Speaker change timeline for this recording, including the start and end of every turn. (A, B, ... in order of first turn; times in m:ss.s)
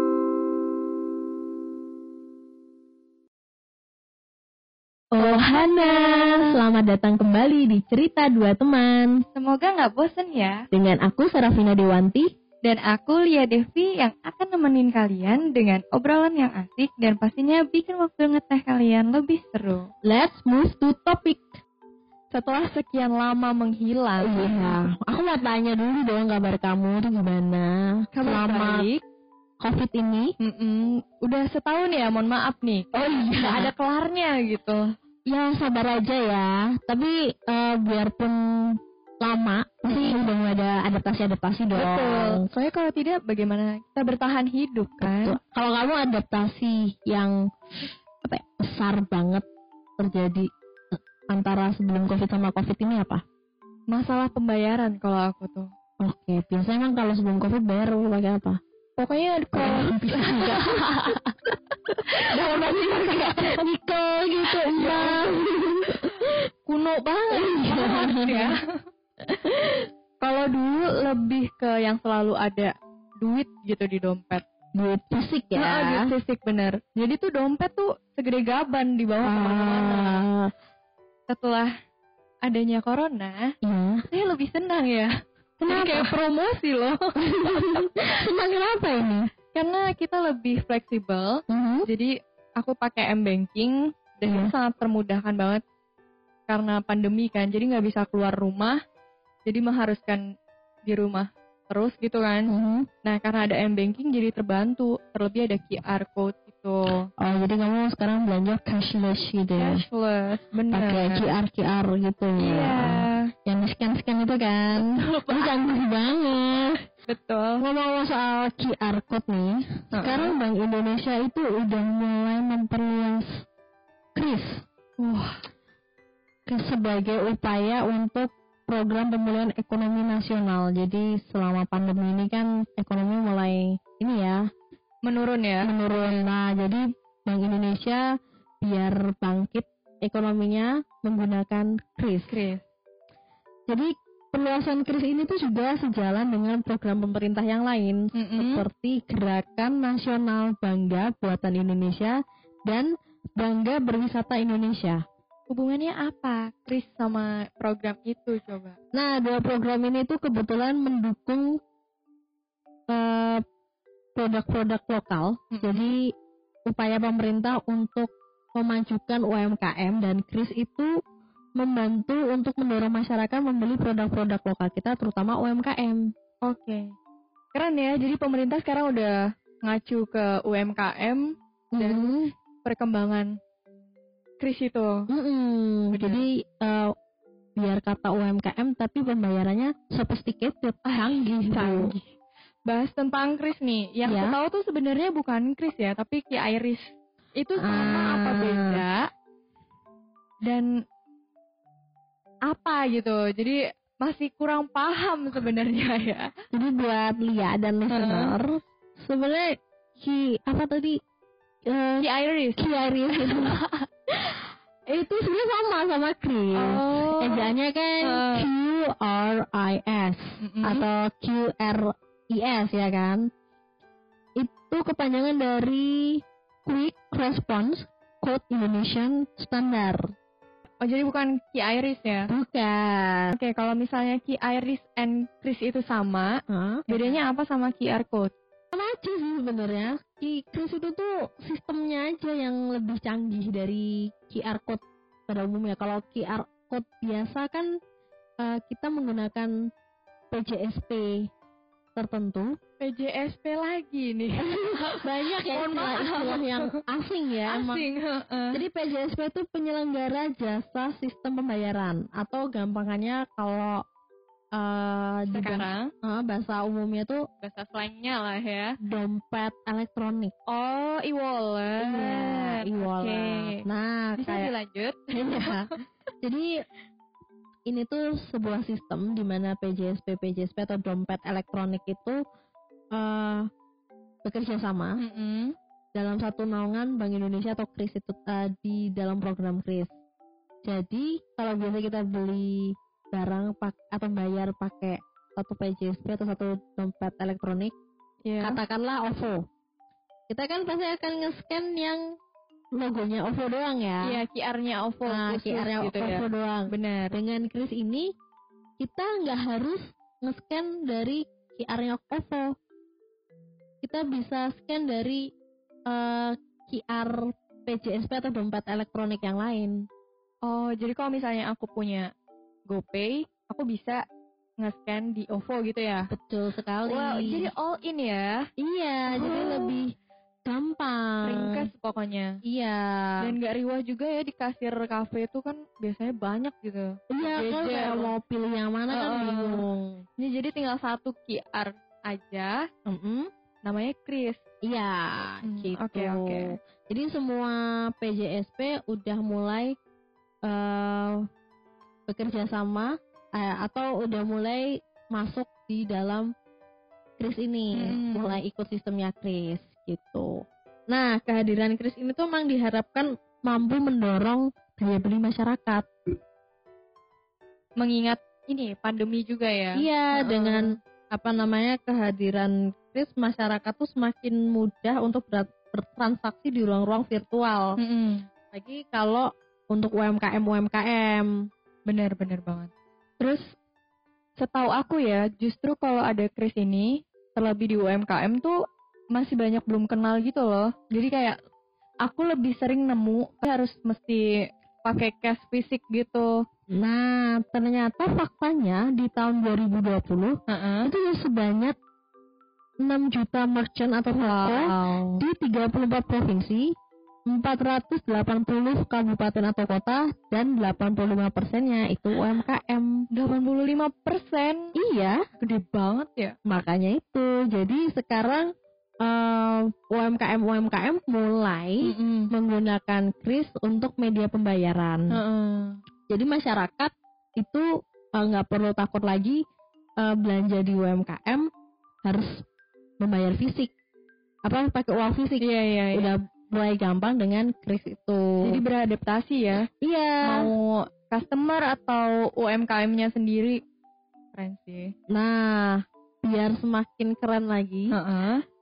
0:05.2-0:09.2 A
0:05.2-0:06.6 B
0:09.4-0:10.6 B
0:10.7-0:12.3 A
0:12.6-0:19.9 B
0:20.1-0:21.4 A
0:22.3-0:24.8 B
0:24.2-0:28.9 A
0:28.1-0:29.0 B
0:29.6-0:30.3 A
0:30.4-0:34.8 B
0:32.9-0:33.7 A
0:35.3-0:42.5 A
0:39.9-0:40.2 B
0:41.8-0:45.4 B
0:45.0-0:47.4 A
0:48.2-0:49.4 A
0:50.0-0:50.5 A
0:51.3-0:53.2 A
0:53.9-0:55.7 B
0:56.0-0:58.6 A
0:59.0-1:01.3 B
0:59.5-1:00.8 A
1:02.0-1:03.6 B
1:02.3-1:06.4 A
1:04.5-1:05.3 B
1:05.9-1:08.6 B
1:07.3-1:08.5 A
1:10.2-1:14.4 B
1:14.8-1:16.1 A
1:15.6-1:20.2 B
1:19.2-1:20.5 A
1:21.3-1:21.7 B
1:22.4-1:23.5 B
1:23.6-1:24.0 A
1:24.1-1:25.1 B
1:25.6-1:26.3 A
1:25.7-1:28.1 B
1:27.2-1:29.3 A
1:29.5-1:35.6 B
1:31.5-1:31.9 A
1:34.3-1:34.5 A
1:36.5-1:38.8 B
1:39.4-1:40.2 B
1:40.9-1:42.5 B
1:42.5-1:42.9 A
1:43.0-1:47.1 B
1:47.2-1:49.8 A
1:49.6-1:51.3 B
1:50.7-1:56.8 A
1:52.4-1:53.3 B
1:54.8-1:55.6 B
1:57.1-1:57.6 B
1:57.6-2:03.5 A
1:59.9-2:00.4 B
2:04.2-2:04.7 A
2:05.0-2:05.4 B
2:06.5-2:14.5 A
2:15.0-2:16.2 B
2:15.6-2:18.0 A
2:18.6-2:22.3 A
2:22.3-2:22.6 B
2:23.7-2:32.2 A
2:28.1-2:28.7 B
2:33.4-2:35.0 A
2:35.5-2:38.8 B
2:38.9-2:41.6 A
2:42.9-2:43.4 A
2:44.2-2:46.1 A
2:45.5-2:46.0 B
2:46.7-2:50.9 A
2:51.6-2:56.1 A
2:56.4-2:56.9 B
2:57.5-3:01.3 B
3:01.7-3:02.3 A
3:01.8-3:03.3 B
3:04.4-3:05.1 B
3:05.1-3:06.9 A
3:05.9-3:06.3 B
3:07.6-3:11.9 A
3:10.9-3:12.1 B
3:12.7-3:19.0 B
3:14.0-3:14.4 A
3:17.6-3:18.8 A
3:20.4-3:20.7 B
3:22.5-3:26.3 B
3:26.5-3:31.0 A
3:27.9-3:28.3 B
3:31.7-3:33.6 A
3:32.0-3:33.8 B
3:34.2-3:43.3 A
3:36.6-3:37.5 B
3:38.0-3:38.5 B
3:40.4-3:40.8 B
3:44.4-3:50.1 A
3:50.8-3:52.3 B
3:52.3-3:53.4 A
3:53.4-3:56.4 B
3:56.5-3:57.2 A
3:56.9-3:58.3 B
3:58.7-4:07.7 A
4:08.4-4:09.7 A
4:10.3-4:11.3 A
4:12.0-4:12.6 A
4:12.8-4:16.8 B
4:14.4-4:17.9 A
4:17.5-4:18.6 B
4:18.5-4:23.8 A
4:24.6-4:27.2 A
4:25.3-4:25.9 B
4:27.4-4:28.8 B
4:28.8-4:30.4 A
4:30.5-4:33.6 B
4:31.8-4:34.5 A
4:34.2-4:35.8 B
4:35.1-4:36.5 A
4:37.7-4:42.2 A
4:42.9-4:43.5 A
4:44.2-4:45.0 A
4:45.0-4:45.5 B
4:46.0-4:49.9 A
4:50.6-4:57.8 A
4:58.3-4:58.6 B
4:58.4-4:59.4 A
5:00.3-5:02.2 A
5:02.8-5:04.2 A
5:04.0-5:07.2 B
5:05.1-5:08.1 A
5:08.8-5:12.6 A
5:13.8-5:15.3 A
5:15.9-5:19.8 A
5:20.5-5:22.1 B
5:22.7-5:24.0 B
5:24.6-5:26.1 B
5:26.1-5:27.5 A
5:26.8-5:28.4 B
5:28.6-5:29.9 A
5:29.1-5:29.8 B
5:30.5-5:31.6 A
5:31.2-5:32.4 B
5:32.4-5:33.1 A
5:33.2-5:38.1 B
5:37.1-5:40.0 A
5:38.9-5:39.6 B
5:40.2-5:42.6 B
5:42.9-5:43.3 A
5:43.6-5:44.4 B
5:44.7-5:49.8 A
5:45.4-5:46.6 B
5:50.5-5:51.2 A
5:52.1-5:56.3 A
5:57.2-6:05.9 A
5:57.7-5:58.4 B
6:07.8-6:10.8 B
6:09.8-6:17.7 A
6:17.8-6:18.2 B
6:18.5-6:21.3 A
6:21.9-6:23.5 B
6:24.4-6:28.6 B
6:29.1-6:31.4 B
6:32.0-6:34.3 B
6:34.8-6:36.3 B
6:36.7-6:41.8 A
6:40.5-6:40.9 B
6:42.8-6:46.7 A
6:44.2-6:45.2 B
6:47.3-6:53.1 A
6:53.1-6:54.7 B
6:54.8-6:55.2 A
6:55.4-6:56.4 B
6:56.5-6:58.5 A
6:59.0-7:05.2 A
7:01.8-7:02.3 B
7:05.1-7:05.8 B
7:06.1-7:07.7 A
7:08.2-7:09.4 A
7:10.0-7:11.5 A
7:12.0-7:12.3 A
7:13.0-7:13.7 A
7:14.5-7:18.5 A
7:15.4-7:16.1 B
7:18.4-7:19.7 B
7:19.8-7:20.5 A
7:20.2-7:23.6 B
7:24.3-7:24.9 B
7:25.1-7:27.9 A
7:27.9-7:28.4 B